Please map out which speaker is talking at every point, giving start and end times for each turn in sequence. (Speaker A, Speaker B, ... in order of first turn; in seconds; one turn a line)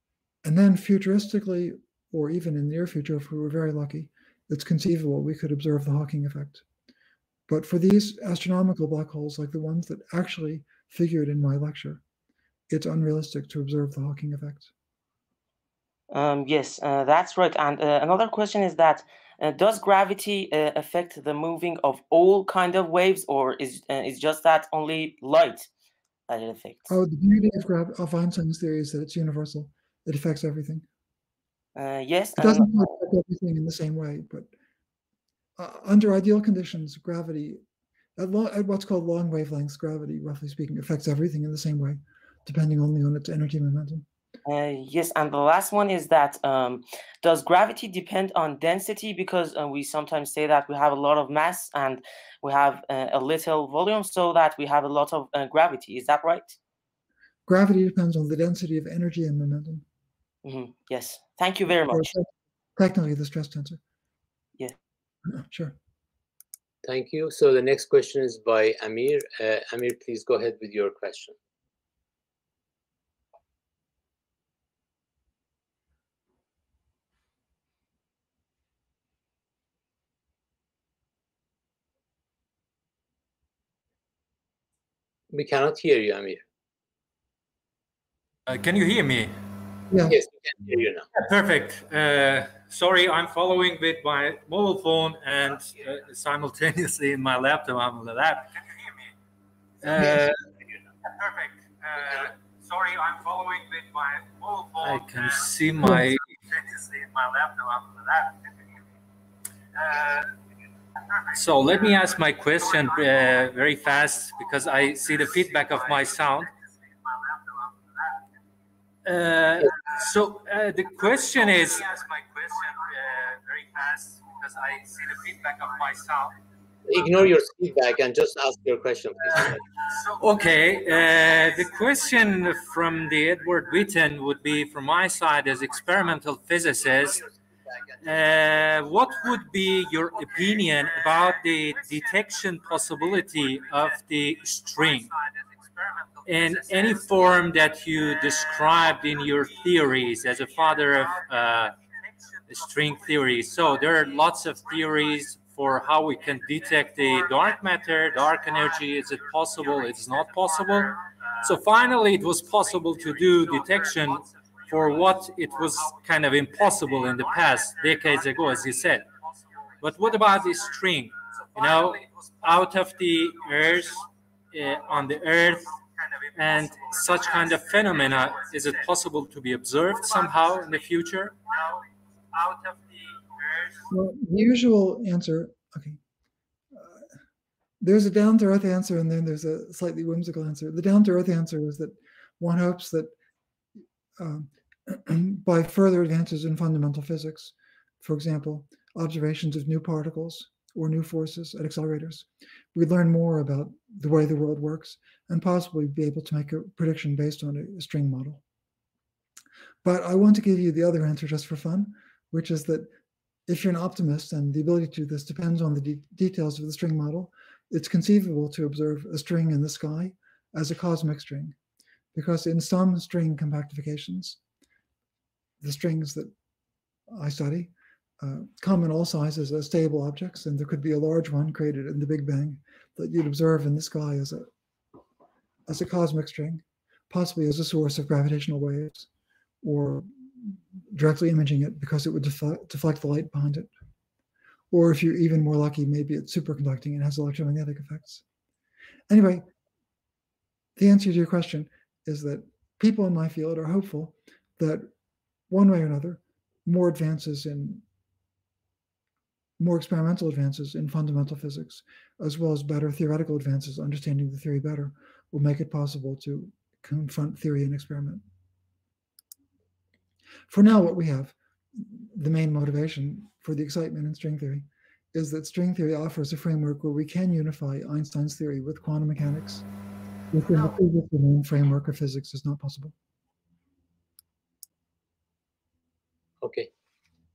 Speaker A: 0.4-6.6
Speaker A: 7.5-12.0
Speaker A: 12.7-14.7
Speaker B: 16.1-25.7
Speaker B: 26.3-26.9
Speaker A: 26.9-30.9
Speaker B: 31.8-32.7
Speaker A: 32.4-34.5
Speaker A: 35.6-37.6
Speaker A: 38.2-44.1
Speaker B: 44.5-56.6
Speaker A: 57.5-59.9
Speaker B: 60.4-62.1
Speaker A: 61.7-63.8
Speaker A: 65.3-65.8
Speaker C: 66.8-71.3
Speaker C: 85.3-86.4
Speaker D: 88.5-89.3
Speaker A: 89.9-90.2
Speaker C: 90.1-91.1
Speaker D: 91.2-99.0
Speaker D: 99.8-100.4
Speaker D: 101.1-108.4
Speaker D: 109.8-110.3
Speaker D: 111.3-116.5
Speaker D: 119.0-126.3
Speaker C: 126.9-129.6
Speaker D: 130.2-137.2
Speaker D: 138.0-145.2
Speaker D: 146.2-151.8
Speaker D: 152.5-169.1
Speaker D: 169.8-175.8
Speaker D: 176.3-181.8
Speaker D: 182.3-183.7
Speaker A: 183.9-186.0
Speaker A: 186.7-187.0
Speaker A: 187.8-193.1
Speaker A: 194.2-208.4
Speaker A: 209.8-212.9
Speaker A: 213.5-221.6
Speaker A: 222.1-224.4
Speaker A: 225.6-226.3
Speaker A: 227.1-234.5
Speaker A: 235.7-239.1
Speaker A: 239.6-243.7
Speaker A: 244.7-248.2
Speaker A: 249.1-249.5
Speaker A: 250.8-254.9
Speaker A: 255.5-257.8
Speaker A: 259.6-268.2
Speaker A: 270.5-279.7
Speaker A: 280.3-282.9
Speaker C: 286.4-286.7